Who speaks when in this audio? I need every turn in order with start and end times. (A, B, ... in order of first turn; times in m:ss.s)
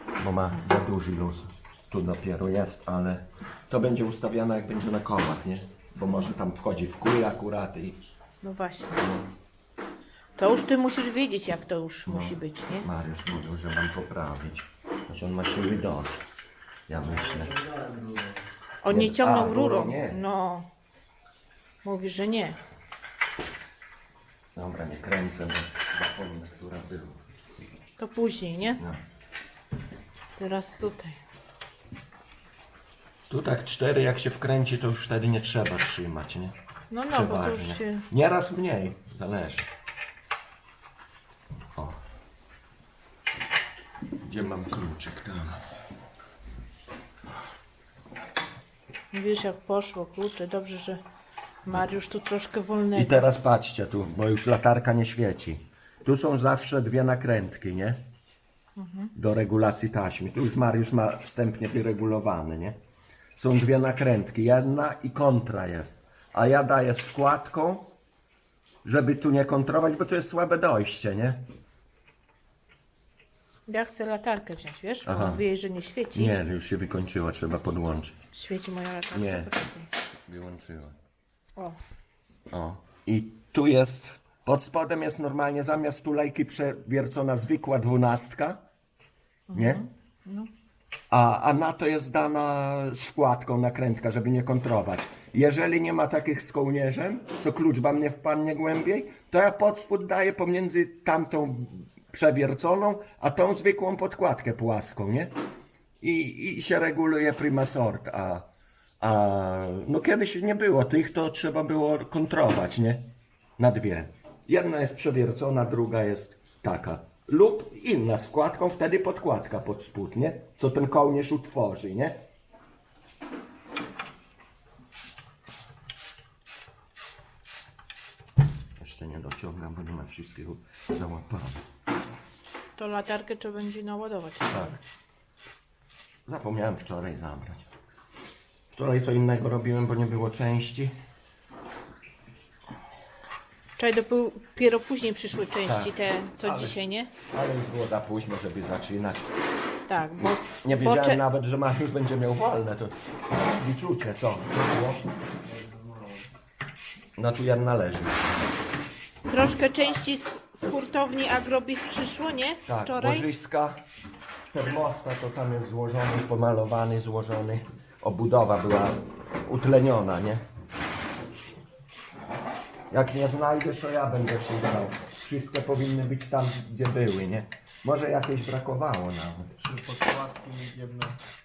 0:00.2-0:08.0 A
0:08.4-0:09.0 B
0:09.0-0:09.3 A
0:10.4-0:12.9 B
0:12.1-0:16.2 A
0:16.9-0:17.6 A
0:17.0-0:18.4 C
0:18.8-0:20.7 B
0:18.9-0:20.2 A
0:21.8-0:22.6 B
0:24.6-0:27.2 A
0:28.0-0:28.8 B
0:28.8-0:29.0 A
0:30.4-0:31.2 B
0:33.3-0:36.6 A
0:36.9-0:38.0 B
0:37.1-0:39.7 A
0:41.8-0:42.0 A
0:44.2-0:45.7 A
0:49.1-0:51.0 B
0:51.6-0:53.2 B
0:53.0-0:58.0 A
0:58.8-0:59.1 B
0:59.2-1:02.8 A
1:03.4-1:07.9 A
1:08.8-1:11.4 A
1:13.7-1:16.4 B
1:15.0-1:15.4 A
1:16.1-1:18.2 A
1:18.3-1:19.9 B
1:19.1-1:19.5 A
1:20.3-1:21.0 A
1:22.5-1:28.6 A
1:29.5-1:30.5 B
1:29.5-1:29.8 A
1:31.1-1:45.3 A
1:46.0-1:48.5 A
1:49.0-2:02.2 A
2:08.8-2:11.6 A
2:12.8-2:14.8 B
2:14.5-2:14.8 A
2:16.3-2:17.6 A
2:18.7-2:21.0 A
2:23.8-2:27.1 B
2:25.6-2:29.3 A
2:29.9-2:31.2 B
2:30.6-2:33.0 A
2:33.6-2:35.0 A
2:35.4-2:36.3 C
2:37.2-2:38.4 A
2:39.3-2:43.3 B
2:42.7-2:43.8 A
2:44.5-2:50.4 A
2:52.9-2:59.5 A
2:59.6-3:01.2 C